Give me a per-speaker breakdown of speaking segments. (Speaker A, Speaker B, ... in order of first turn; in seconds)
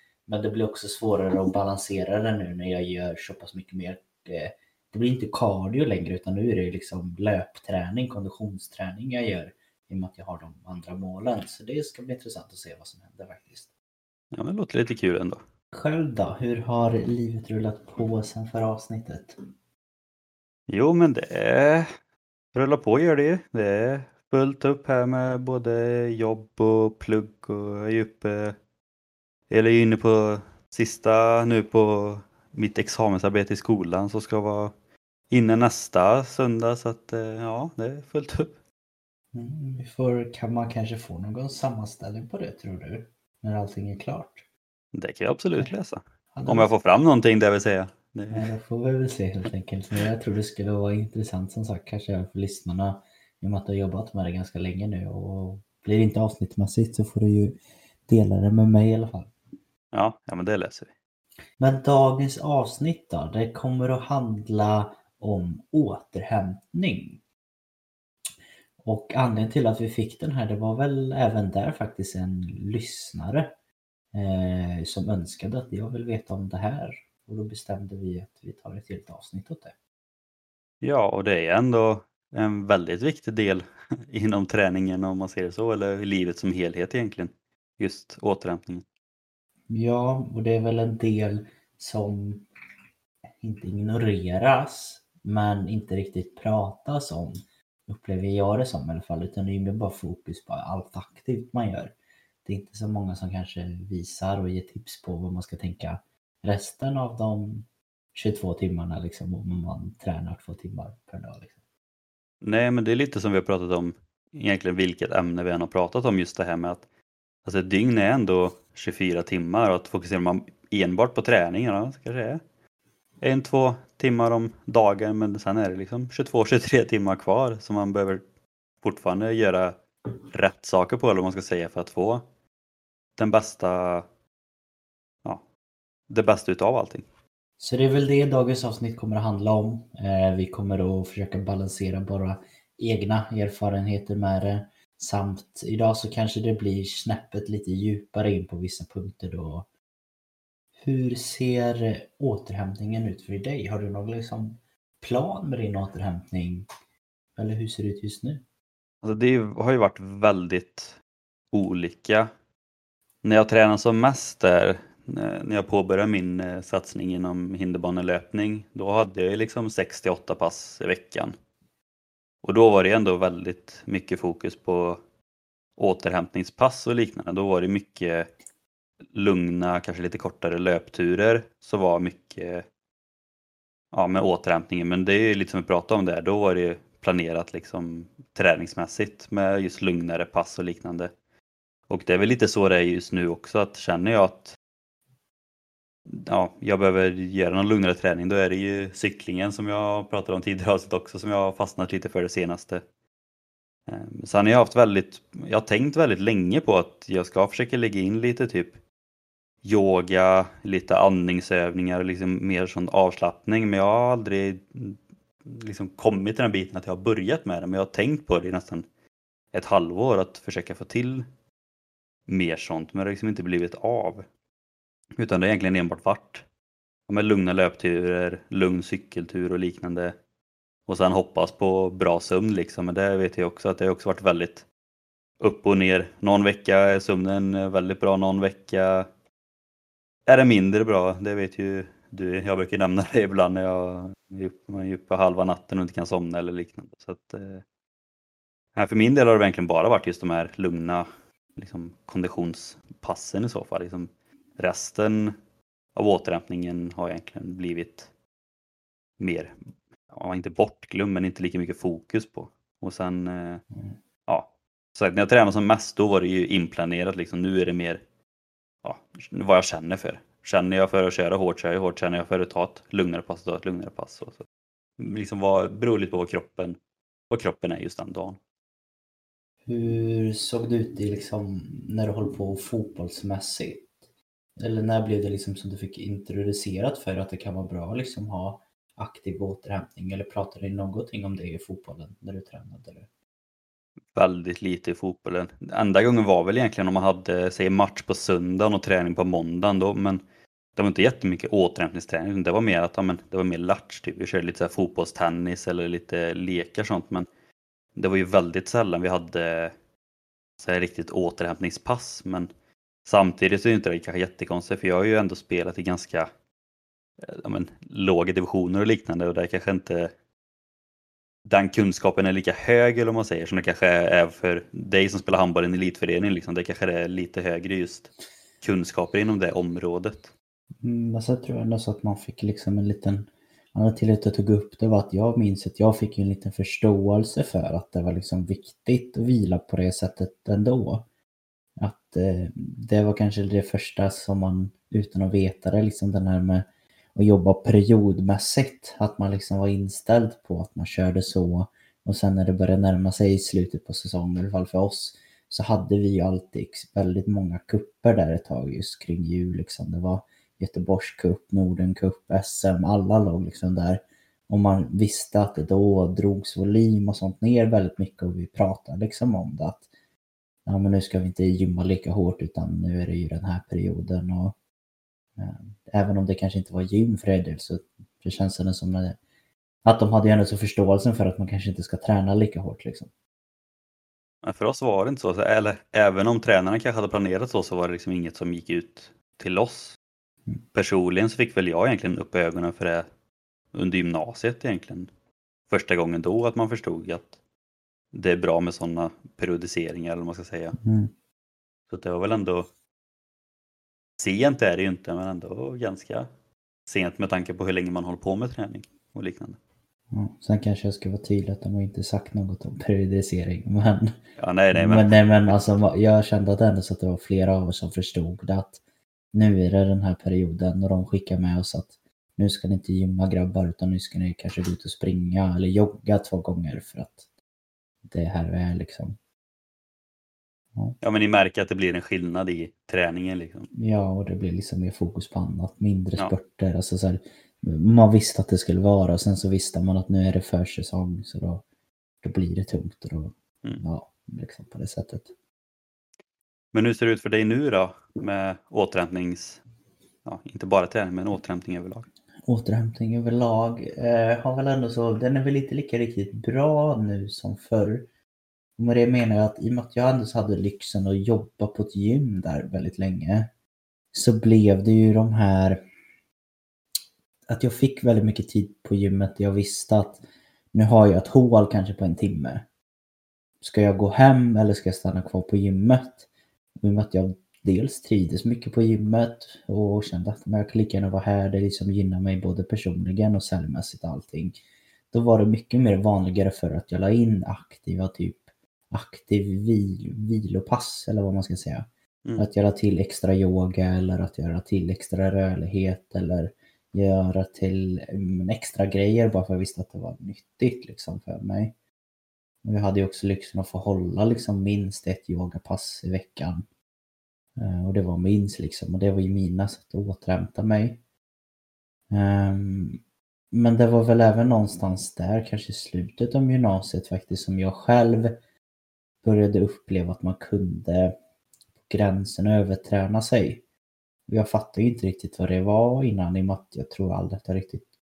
Speaker A: 0.3-13.7, 15.7-19.4, 39.3-44.5, 46.3-46.7, 48.3-59.3, 61.6-67.2, 68.8-73.5, 74.1-79.8, 89.7-92.5, 93.4-111.6, 137.6-149.7, 150.8-156.7, 157.4-158.4, 279.7-283.9, 284.6-293.1, 330.8-341.1, 341.8-369.9, 370.7-374.6, 375.4-379.2, 379.9-383.1, 400.8-401.1, 410.1-414.1, 414.7-418.8, 419.3-427.3, 428.1-429.2, 433.7-441.6, 442.2-445.3, 452.5-458.1, 458.8-463.5, 464.1-465.8, 467.5-472.7, 473.6-484.6, 485.1-501.8, 502.6-506.7, 507.6-511.0, 512.1-513.0, 513.5-518.4, 519.2-521.2, 521.8-523.6, 524.3-527.9
Speaker B: 14.3-15.4, 20.7-21.9, 22.5-28.6, 29.5-34.7, 35.3-38.5, 44.9-48.5, 59.9-60.9, 80.8-88.8, 112.4-116.8, 117.5-122.4, 123.2-128.2, 128.8-129.8, 130.3-132.2, 133.2-134.1, 136.1-137.1, 159.0-161.0, 161.5-162.3, 163.2-171.3, 172.4-175.0, 175.8-178.3, 179.1-182.7, 183.9-191.1, 191.9-194.6, 196.1-202.8, 203.9-208.8, 209.6-218.9, 219.5-221.3, 222.3-224.3, 225.2-226.4, 227.1-230.2, 230.9-234.7, 235.4-239.1, 240.3-247.7, 248.8-255.3, 255.9-258.1, 259.2-259.5, 260.1-263.6, 264.3-268.0, 268.8-274.4, 275.0-276.8, 277.3-278.4, 294.1-300.2, 300.8-307.3, 308.0-309.7, 310.6-312.5, 313.1-316.3, 317.2-320.1, 321.5-330.3, 384.4-390.0, 390.7-393.1, 393.7-395.1, 395.7-397.4, 398.1-400.8, 401.9-402.7, 404.2-406.3, 406.9-409.6, 414.4-415.5, 431.0-433.7, 446.7-449.6, 450.2-452.1